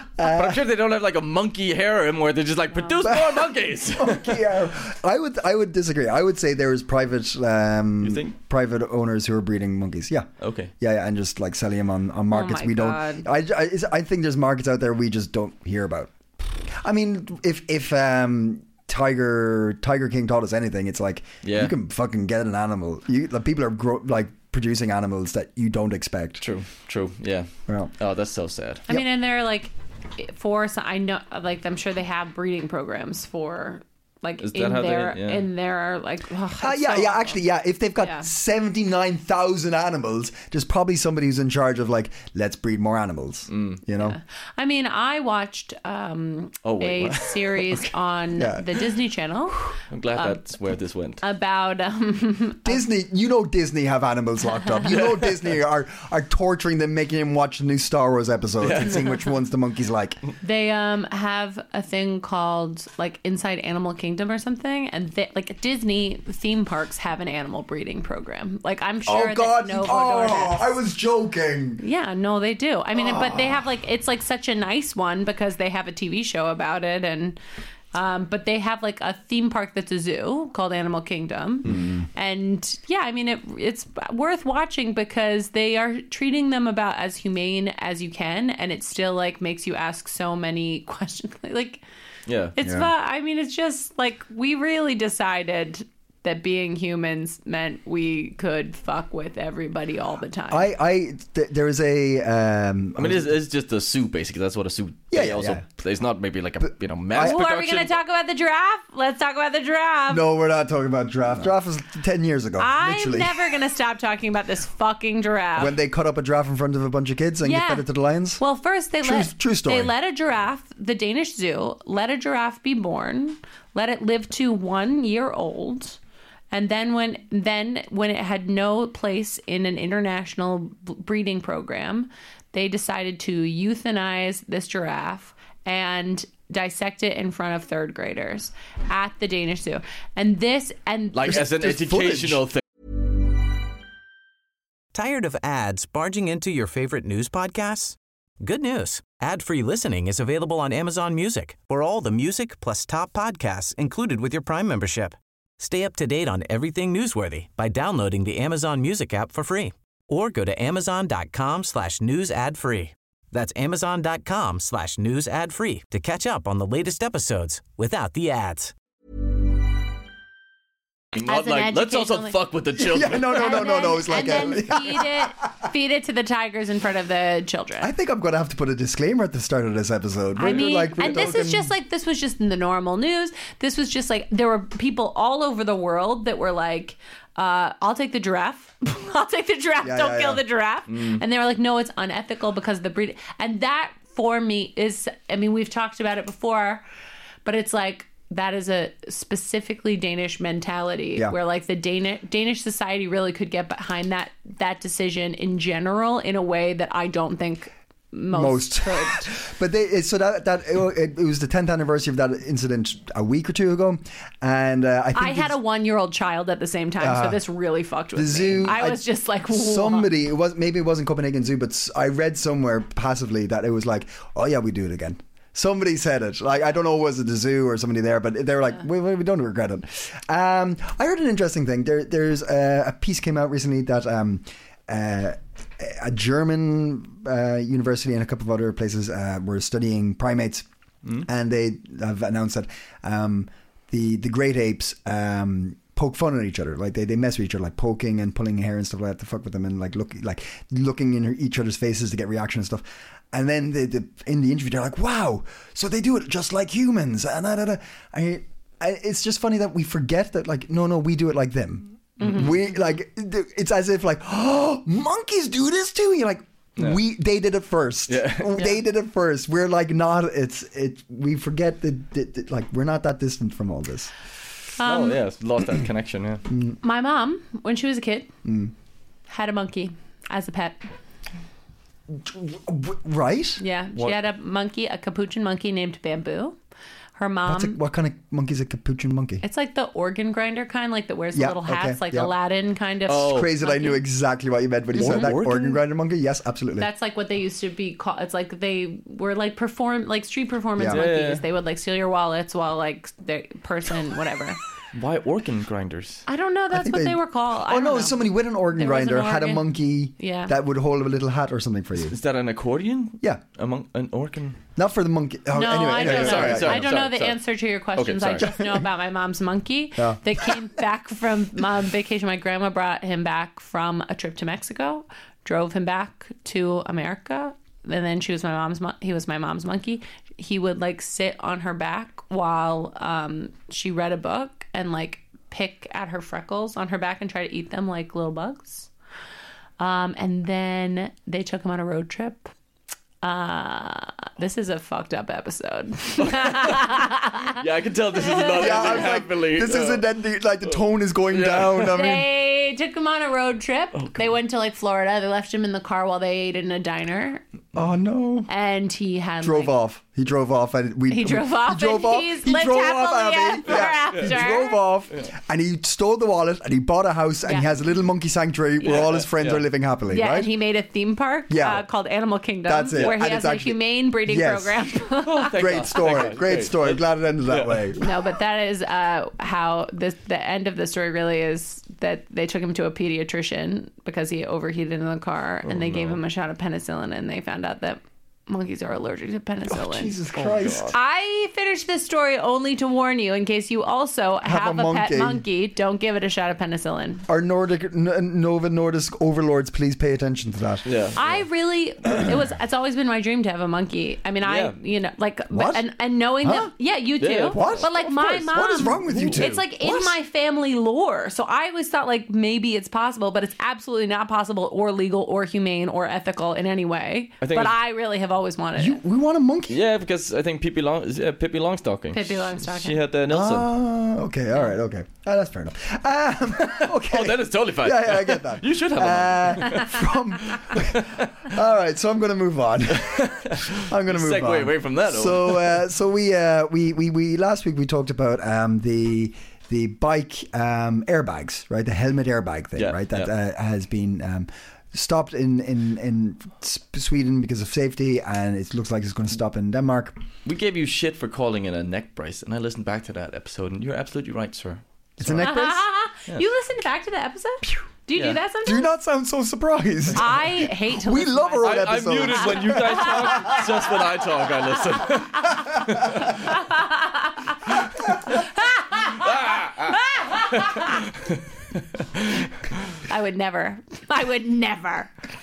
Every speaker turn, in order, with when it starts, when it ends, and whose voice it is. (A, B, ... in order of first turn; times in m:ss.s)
0:00.2-0:00.6 A
0:00.2-0:04.4 B
0:03.0-0:26.4 A
0:08.0-0:08.3 B
0:10.4-0:10.7 B
0:12.3-0:13.2 C
0:21.4-0:21.7 B
0:26.4-0:28.8 B
0:28.9-0:37.4 C
0:34.4-0:35.4 B
0:36.6-0:44.2 A
0:38.0-0:38.3 C
0:43.5-0:43.8 B
0:44.0-0:50.4 C
0:46.6-0:47.8 B
0:48.4-0:48.7 A
0:49.9-0:51.2 B
0:51.2-0:52.8 C
0:52.6-1:00.2 A
0:54.9-0:55.4 B
0:58.6-0:59.0 B
1:00.4-1:10.6 C
1:09.0-1:11.8 A
1:11.8-1:17.4 C
1:13.0-1:13.5 A
1:17.9-1:31.8 C
1:21.7-1:22.0 A
1:32.3-1:32.5 B
1:32.5-1:40.7 C
1:32.6-1:32.9 A
1:40.5-1:43.3 A
1:43.0-1:48.0 B
1:45.1-1:45.6 A
1:47.1-1:47.4 A
1:47.2-1:50.2 C
1:50.1-1:53.4 A
1:52.6-1:55.8 C
1:55.6-1:58.4 A
1:57.4-1:57.9 C
1:58.4-2:06.0 C
1:59.0-1:59.9 A
2:06.5-2:21.4 C
2:21.1-2:22.6 B
2:21.3-2:22.4 A
2:24.9-2:48.7 D
2:51.1-2:53.8 B
2:51.2-2:52.4 C
2:52.8-2:55.3 A
2:53.1-2:57.9 C
2:57.8-3:01.7 A
3:00.4-3:16.8 C
3:09.8-3:10.4 A
3:10.9-3:11.2 B
3:17.4-3:29.3 C
3:28.3-3:35.6 A
3:35.1-3:40.1 C
3:37.0-3:37.4 A
3:38.2-4:00.6 A
4:01.2-4:34.1 A
4:22.2-4:22.5 B
4:28.1-4:28.7 B
4:34.8-4:35.2 C
4:34.8-4:36.4 B
4:36.5-4:36.8 A
4:36.8-4:38.3 C
4:38.4-4:38.7 A
4:39.3-4:40.8 C
4:42.1-4:43.6 A
4:43.6-4:46.6 C
4:47.2-4:47.8 C
4:47.4-4:49.4 A
4:49.4-4:54.0 C
4:51.3-4:52.3 A
4:53.1-4:53.5 B
4:53.2-4:56.9 A
4:55.0-4:55.3 C
4:55.0-4:55.8 B
4:56.8-5:04.6 C
5:00.8-5:01.0 A
5:00.9-5:01.4 B
5:04.9-5:06.2 B
5:06.3-5:10.5 C
5:06.7-5:12.2 A
5:12.0-5:14.6 B
5:14.8-5:16.9 A
5:15.5-5:38.9 C
5:16.0-5:17.4 B
5:17.9-5:18.5 B
5:18.4-5:18.8 A
5:20.0-5:20.6 A
5:39.8-5:42.5 C
5:43.2-5:47.6 C
5:46.3-5:46.8 B
5:47.6-5:50.0 B
5:48.2-5:49.0 C
5:48.5-5:52.3 A
5:51.3-5:51.9 B
5:51.8-5:57.4 C
5:54.0-5:54.2 B
5:57.7-5:58.5 A
5:58.5-5:59.7 C
5:59.4-6:10.5 A
6:01.1-6:04.8 C
6:03.7-6:04.3 B
6:08.8-6:09.6 B
6:10.1-6:15.6 C
6:11.5-6:11.8 A
6:12.7-6:14.9 A
6:12.9-6:13.2 B
6:15.2-6:17.9 B
6:15.5-6:18.1 A
6:18.0-6:30.2 C
6:25.6-6:26.2 B
6:29.7-6:30.9 A
6:30.3-6:30.9 B
6:30.9-6:37.2 C
6:34.4-6:35.4 A
6:37.3-6:41.3 A
6:40.8-6:41.2 B
6:41.2-6:59.0 C
6:44.4-6:44.7 B
6:45.5-6:45.9 A
6:46.4-6:46.7 A
6:47.2-6:47.9 B
6:47.5-6:50.2 A
6:49.1-6:49.4 B
6:57.4-6:57.7 B
6:58.8-6:59.8 A
6:59.7-7:03.7 B
7:02.1-7:03.0 C
7:03.3-7:30.2 A
7:06.6-7:11.5 B
7:12.9-7:15.8 B
7:22.8-7:23.3 B
7:30.4-7:35.5 B
7:35.2-7:35.8 A
7:35.4-7:38.9 C
7:38.6-7:43.6 A
7:40.1-7:43.6 C
7:41.6-7:46.4 B
7:45.0-7:45.6 C
7:46.1-7:47.5 C
7:48.3-7:49.3 C
7:49.0-7:52.5 B
7:49.9-7:50.9 C
7:53.0-7:55.1 C